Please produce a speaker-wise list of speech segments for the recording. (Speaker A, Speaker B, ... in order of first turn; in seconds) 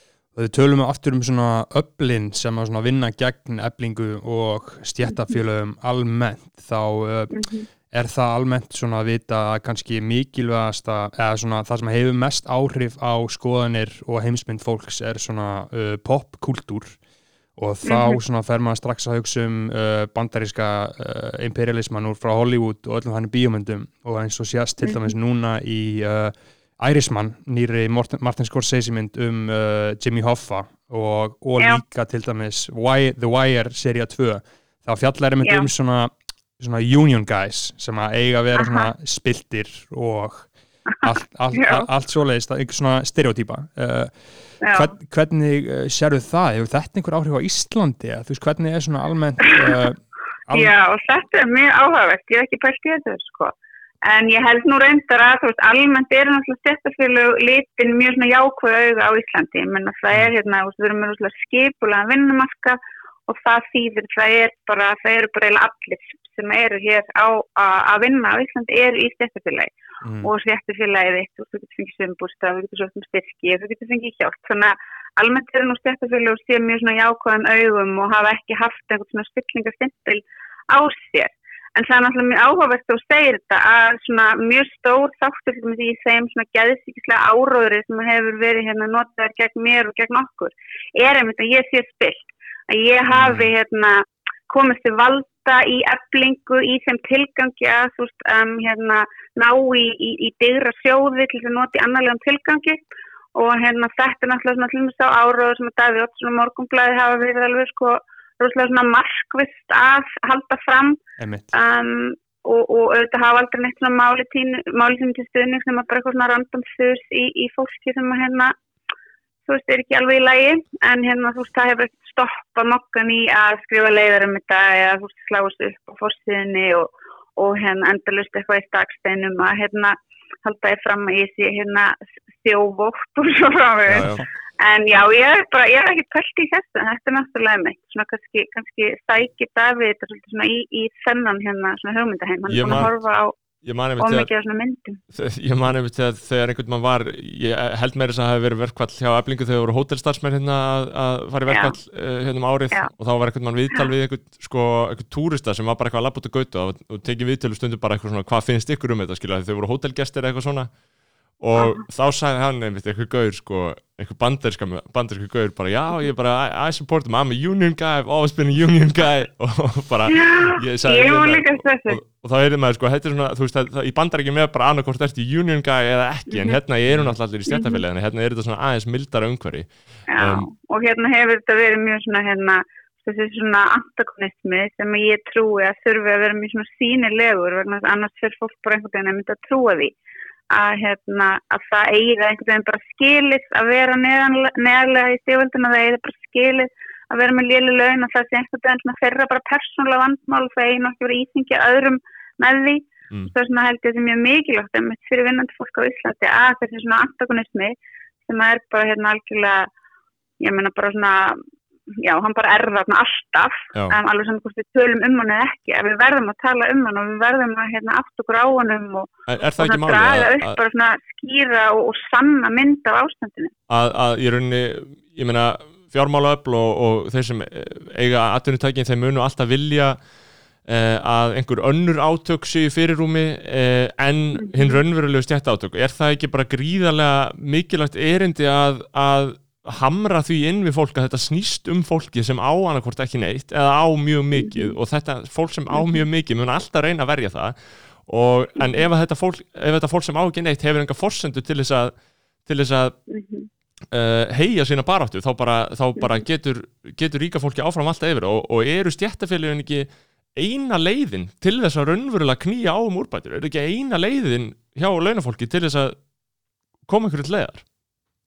Speaker A: 0.3-7.3, 7.9-17.0, 17.6-40.5, 41.0-50.7, 70.0-70.3, 111.2-111.5, 133.9-134.2
Speaker B: 7.3-7.7, 17.9-18.2, 24.9-25.1, 35.4-35.7, 38.6-38.9, 41.5-41.9, 44.6-44.9, 50.5-53.5, 54.0-69.7, 70.2-102.8, 103.3-111.0, 111.5-118.5, 119.5-143.3, 144.0-145.0, 151.5-151.7, 170.1-172.0, 176.3-176.6, 177.5-177.8, 180.1-189.9, 190.5-207.8, 208.3-209.7, 210.4-211.4, 212.0-223.5, 234.5-234.8, 253.1-253.5
Speaker C: 133.9-134.2, 142.5-142.9, 143.6-144.3, 145.1-160.7, 161.4-180.5, 219.3-220.6, 223.7-230.0, 230.7-247.6, 248.1-251.9, 252.5-252.9, 253.9-266.0, 266.9-267.6